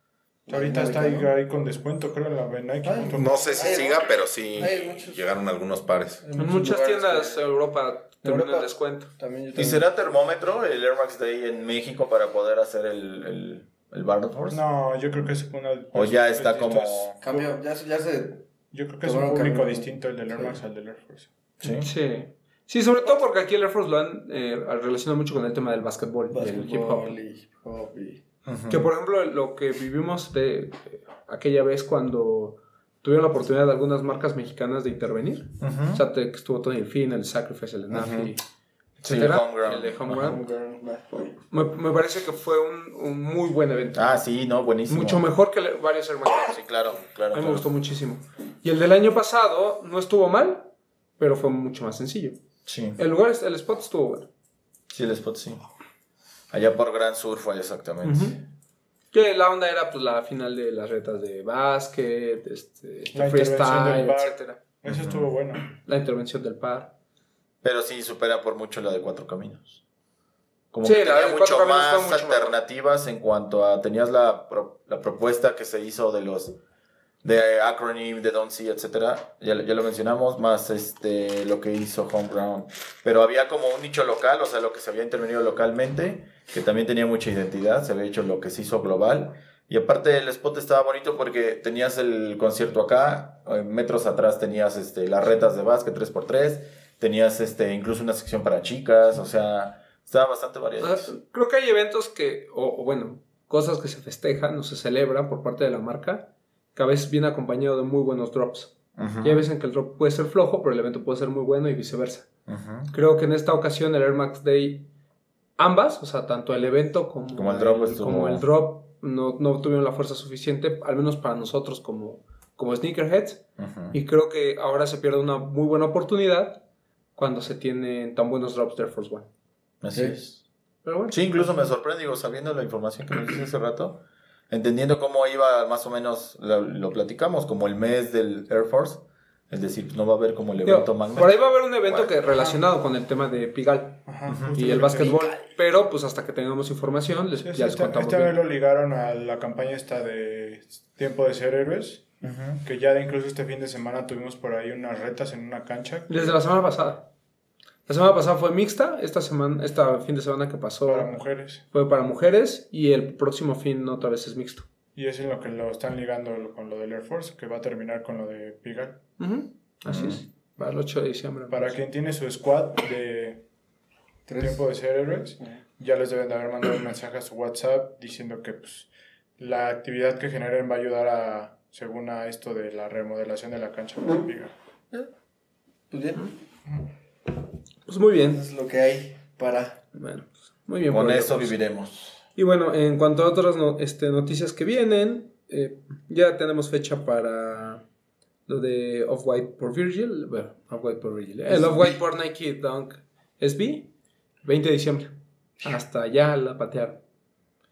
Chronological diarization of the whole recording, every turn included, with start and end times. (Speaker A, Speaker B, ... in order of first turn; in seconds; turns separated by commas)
Speaker A: 0.5-1.3, Speaker B: 0.5-3.9, Speaker A: 2.8-5.2, Speaker C: 3.1-6.2, Speaker A: 6.2-7.5, Speaker D: 6.4-9.1, Speaker A: 8.2-9.9, Speaker E: 9.6-14.6, Speaker B: 14.5-17.5, Speaker E: 15.9-17.2, Speaker A: 17.2-18.4, Speaker B: 18.7-21.3, Speaker A: 19.0-20.6, Speaker E: 21.6-21.9, Speaker D: 21.6-27.2, Speaker A: 26.3-28.2, Speaker E: 28.5-28.9, Speaker D: 28.7-38.4, Speaker E: 35.6-36.0, Speaker E: 37.9-38.3, Speaker E: 39.0-40.4, Speaker D: 39.0-40.4, Speaker A: 40.0-41.4, Speaker D: 41.5-44.1, Speaker E: 43.9-45.3, Speaker D: 44.9-46.6, Speaker E: 46.3-47.7, Speaker D: 47.3-52.4, Speaker E: 52.7-53.0, Speaker D: 53.0-54.3, Speaker E: 54.9-55.6, Speaker E: 56.5-58.4, Speaker D: 58.0-58.4, Speaker D: 59.1-64.6, Speaker B: 63.1-65.7, Speaker E: 64.8-65.3, Speaker D: 65.8-66.9, Speaker E: 67.6-69.8, Speaker E: 70.7-76.6, Speaker D: 70.8-72.6, Speaker E: 77.2-101.1, Speaker D: 100.8-112.3, Speaker E: 109.0-109.5, Speaker E: 112.5-112.9, Speaker D: 112.9-114.9, Speaker D: 115.6-126.6, Speaker E: 117.3-118.5, Speaker E: 123.6-124.0, Speaker D: 127.2-129.3, Speaker E: 129.8-130.4, Speaker D: 130.8-131.2, Speaker E: 131.1-142.1, Speaker D: 140.6-148.3, Speaker B: 142.3-142.6, Speaker B: 144.1-145.2, Speaker E: 144.3-144.6, Speaker A: 145.0-145.3, Speaker B: 147.4-152.1, Speaker E: 152.2-152.6, Speaker B: 152.6-156.4, Speaker D: 156.1-157.1, Speaker D: 157.9-164.7, Speaker B: 160.9-161.6, Speaker B: 164.9-169.0, Speaker D: 169.2-171.8, Speaker E: 169.9-170.2, Speaker B: 171.5-173.4, Speaker A: 174.3-174.7, Speaker B: 174.4-184.5, Speaker A: 185.9-186.3, Speaker D: 187.9-188.4, Speaker A: 188.3-189.8, Speaker D: 189.9-191.6, Speaker E: 190.9-192.2, Speaker D: 192.4-197.8, Speaker D: 198.5-203.9, Speaker A: 201.5-202.0, Speaker D: 204.4-207.0